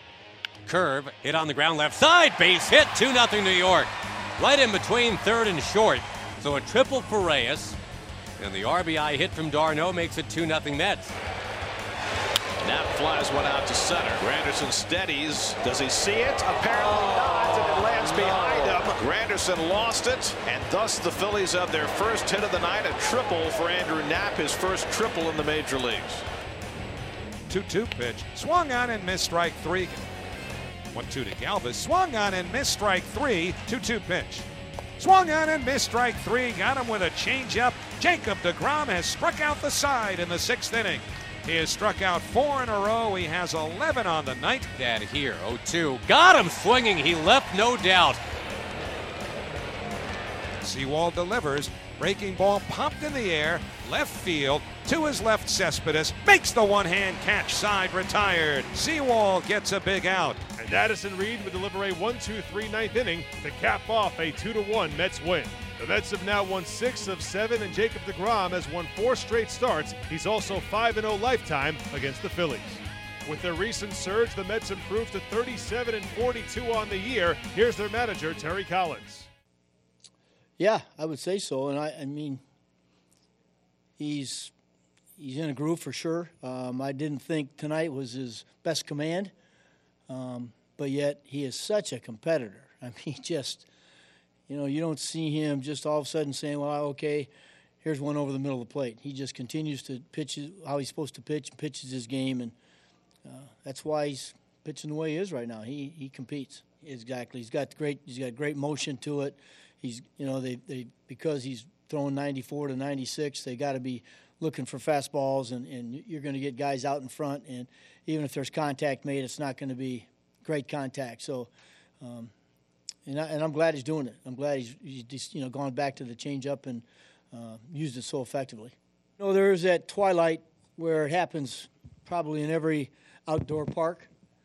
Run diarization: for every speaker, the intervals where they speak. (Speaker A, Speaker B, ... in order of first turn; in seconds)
Speaker A: 0.7-7.8, 8.4-11.1, 44.8-48.2
Speaker B: 12.6-26.2
Speaker C: 27.5-30.1, 30.9-44.7, 50.6-60.4
Speaker D: 60.6-79.3
Speaker E: 80.6-82.4, 84.0-84.5, 85.2-89.3, 90.1-93.7, 94.5-97.3, 97.8-102.5, 103.2-122.3, 123.1-134.1